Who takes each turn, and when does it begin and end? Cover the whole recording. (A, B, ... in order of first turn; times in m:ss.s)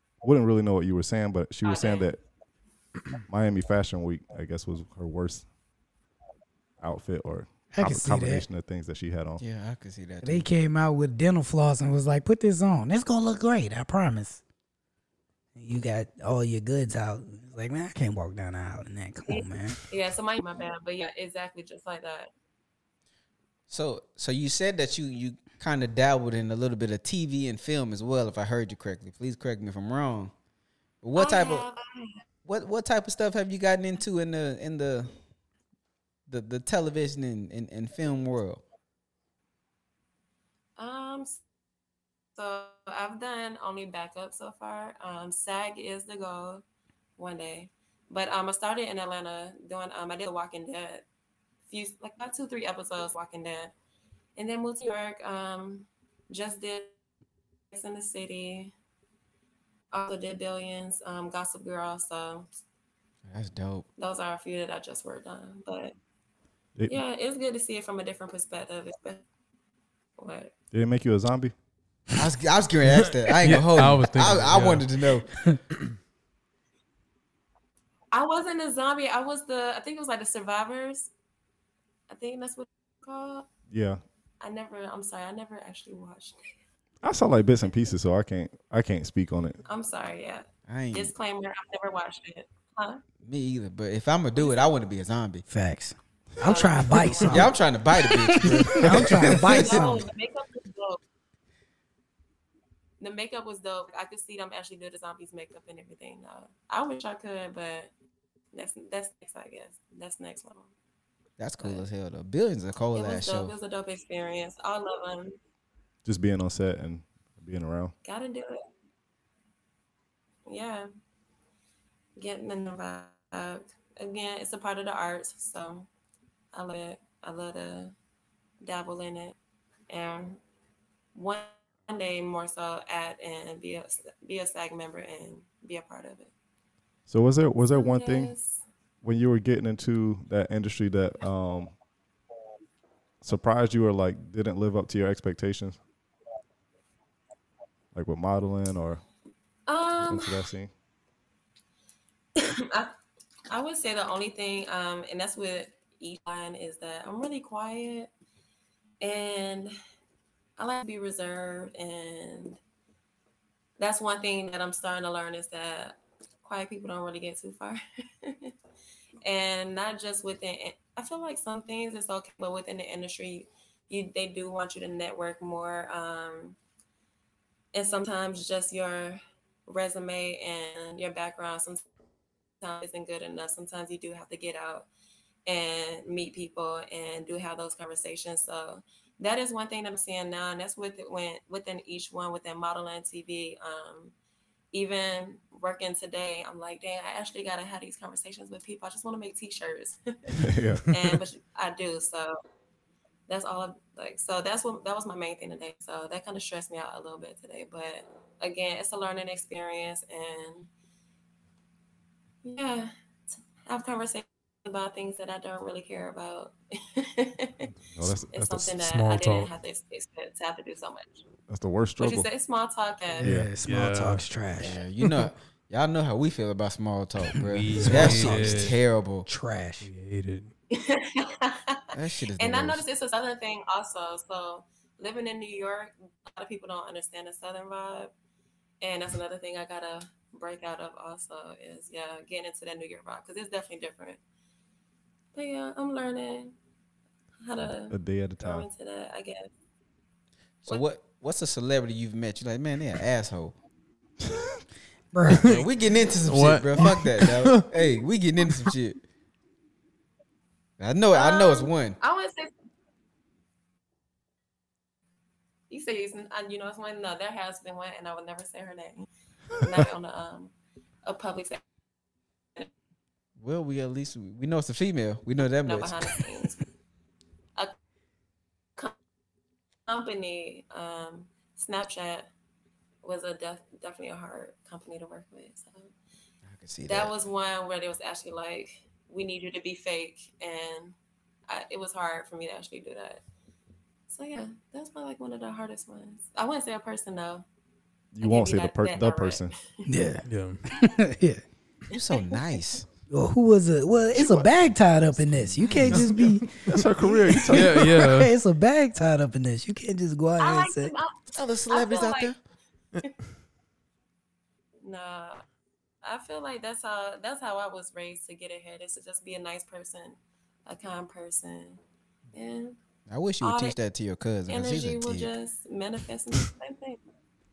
0:00.2-0:02.2 A
0:01.6-0:02.1 B
0:03.3-0:05.4 A
0:06.8-0:09.4 A
0:07.7-0:08.4 C
0:09.4-0:10.5 D
0:10.2-0:14.4 C
0:15.6-0:19.8 C
0:19.3-0:22.3 B
0:23.7-0:30.3 D
0:31.0-0:31.6 D
0:31.2-0:32.2 B
0:32.4-0:35.1 D
0:36.3-0:38.6 D
0:40.8-0:41.4 B
0:42.4-0:46.6 B
0:47.2-0:51.0 B
0:51.7-0:53.7 B
0:54.4-0:56.9 B
0:57.7-0:58.7 B
0:59.9-1:02.5 B
1:03.3-1:03.9 D
1:04.0-1:05.9 B
1:06.9-1:09.2 B
1:10.2-1:10.5 B
1:10.7-1:11.5 A
1:12.1-1:15.3 D
1:13.4-1:14.9 E
1:18.1-1:21.1 B
1:22.1-1:23.5 B
1:23.7-1:24.0 A
1:24.4-1:26.5 B
1:27.0-1:29.6 A
1:29.6-1:33.0 B
1:30.7-1:31.1 D
1:33.2-1:35.4 D
1:35.5-1:40.0 C
1:36.4-1:37.5 B
1:37.3-1:39.9 D
1:38.8-1:39.0 A
1:39.4-1:41.0 B
1:43.0-1:47.9 B
1:48.5-1:50.7 B
1:51.4-1:53.5 D
1:51.6-1:51.8 B
1:52.9-1:55.4 B
1:56.0-1:57.9 A
1:58.0-1:58.6 B
2:00.5-2:00.9 B
2:02.2-2:05.9 B
2:06.5-2:07.9 B
2:08.6-2:09.4 B
2:09.9-2:10.4 B
2:11.1-2:16.3 B
2:17.1-2:18.3 A
2:17.7-2:18.6 B
2:19.0-2:21.7 A
2:23.2-2:25.8 A
2:27.9-2:29.0 A
2:29.7-2:30.4 B
2:30.0-2:30.7 A
2:32.4-2:32.9 B
2:33.5-2:38.1 B
2:39.0-2:39.7 B
2:40.6-2:42.6 B
2:43.8-2:48.5 B
2:49.2-2:56.6 B
2:57.7-3:01.8 B
3:02.6-3:04.9 B
3:05.5-3:14.1 B
3:14.7-3:22.3 B
3:20.3-3:21.2 A
3:23.3-3:30.7 B
3:32.4-3:32.9 B
3:33.6-3:37.7 B
3:37.9-3:38.8 A
3:38.3-3:41.2 B
3:38.8-3:39.5 E
3:41.5-3:42.3 A
3:42.0-3:43.3 B
3:43.2-3:44.8 C
3:43.2-3:43.5 A
3:43.6-3:44.2 E
3:44.6-3:49.3 D
3:47.5-3:48.8 E
3:47.7-3:49.9 C
3:49.8-3:50.5 E
3:50.7-3:51.8 B
3:51.9-3:52.8 D
3:52.4-3:58.1 B
3:58.8-4:04.2 B
4:05.3-4:06.5 B
4:07.4-4:09.5 B
4:07.9-4:08.7 A
4:10.6-4:13.5 D
4:15.1-4:15.5 C
4:15.4-4:15.7 E
4:15.4-4:19.0 D
4:16.2-4:17.7 E
4:20.8-4:22.0 D
4:21.1-4:22.5 B
4:25.7-4:30.5 B
4:31.0-4:31.6 B
4:33.4-4:36.2 D
4:35.6-4:36.6 B
4:39.9-4:42.3 B
4:43.0-4:45.9 B
4:46.5-4:47.1 D
4:46.9-4:51.0 B
4:51.5-4:53.2 B
4:54.1-4:57.4 B
4:58.1-4:59.5 A
4:58.2-4:59.8 B
4:59.9-5:01.4 C
5:00.2-5:00.6 E
5:01.9-5:02.8 D
5:03.1-5:06.7 C
5:04.1-5:04.4 A
5:05.8-5:08.3 E
5:06.7-5:08.0 A
5:07.3-5:10.9 C
5:10.4-5:12.3 B
5:11.3-5:12.4 D
5:14.8-5:15.4 B
5:16.0-5:21.8 B
5:22.3-5:22.8 B
5:23.1-5:25.3 D
5:23.4-5:23.8 B
5:24.5-5:27.0 B